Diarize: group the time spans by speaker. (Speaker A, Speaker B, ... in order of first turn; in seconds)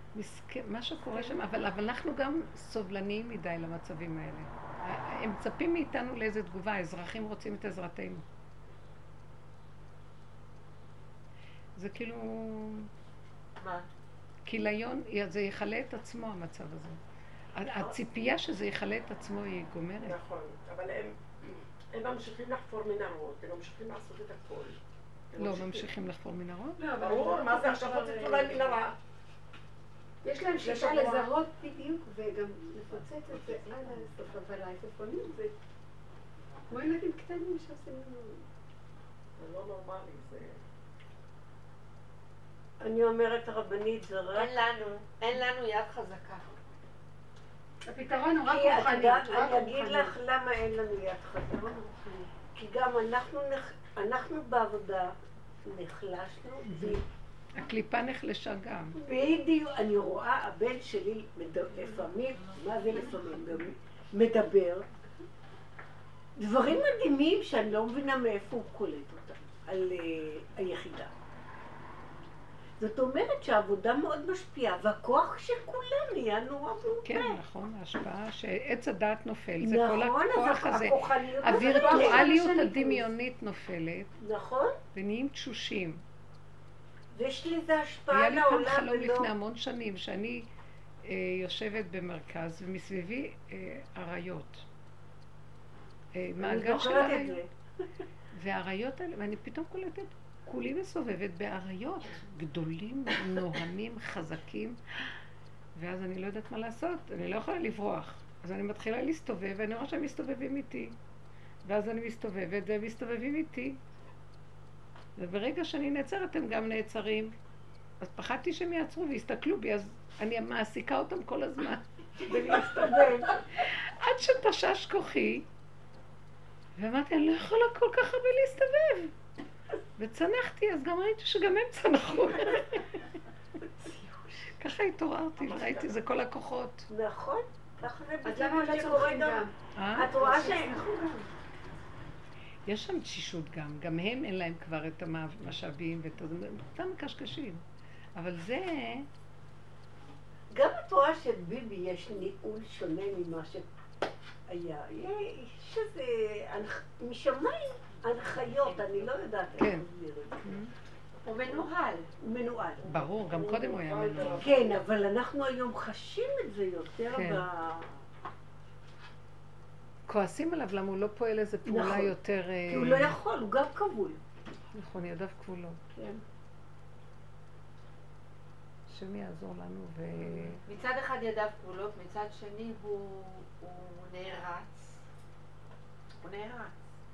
Speaker A: 0.1-8.2, 11.8-12.9, 14.4-17.0, 17.6-20.2, 25.4-26.8, 57.5-59.0, 77.0-84.1, 84.9-86.0, 88.1-90.5, 91.0-94.7, 96.1-97.4, 98.3-104.8, 105.7-111.0, 111.6-113.8, 115.2-117.3, 118.0-125.5, 126.8-129.1, 130.0-132.9, 134.6-136.9, 139.8-140.1, 142.7-147.6, 148.1-149.1, 159.6-159.9, 160.4-160.7, 162.8-164.5, 167.1-167.4, 170.1-173.2, 174.7-175.8, 178.9-180.6
Speaker B: 13.6-13.9, 44.3-46.5, 161.2-162.1, 180.7-185.0, 186.2-186.8
Speaker C: 20.0-24.8, 25.3-25.9, 26.9-28.9, 30.6-31.3, 39.4-40.6, 135.4-136.0, 163.1-164.8
Speaker D: 26.8-28.8, 30.2-35.5, 36.7-38.4, 47.9-50.1, 81.5-83.0, 133.8-134.4, 138.2-139.5, 140.1-141.3
Speaker E: 42.8-44.5, 48.4-55.1, 55.6-57.0, 59.0-64.8, 66.4-71.1, 72.8-77.4, 79.6-82.3, 84.2-84.8, 87.1-89.3, 96.4-97.5, 122.2-123.4, 136.9-139.4, 139.9-140.8, 150.5-153.6, 154.5-160.5, 162.2-162.8, 164.3-167.9, 171.7-172.1, 172.7-174.2, 175.9-176.2